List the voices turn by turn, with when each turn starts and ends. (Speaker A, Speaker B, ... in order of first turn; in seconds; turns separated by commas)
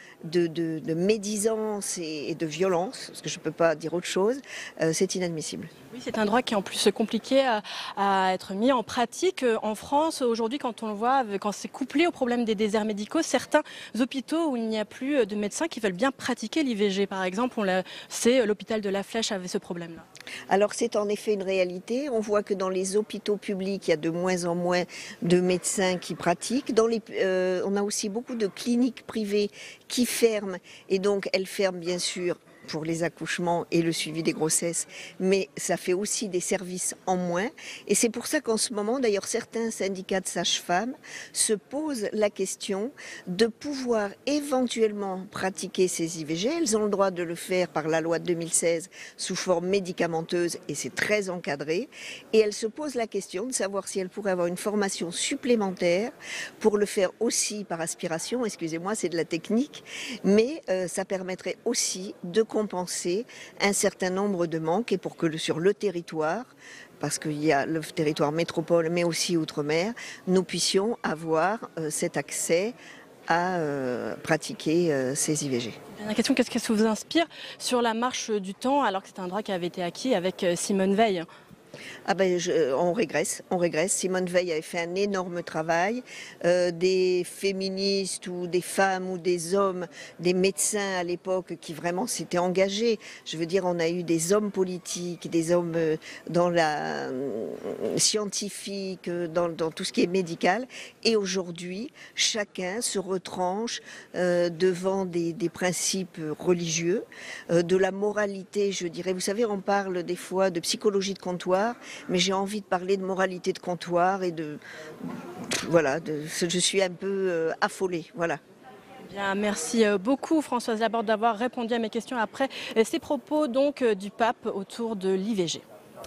Speaker A: 0.2-5.7, Speaker B: 5.9-20.1, Speaker A: 20.5-72.8, Speaker A: 73.3-75.8, Speaker B: 76.0-81.3, Speaker A: 82.1-114.6, Speaker A: 115.5-118.4, Speaker B: 119.1-125.6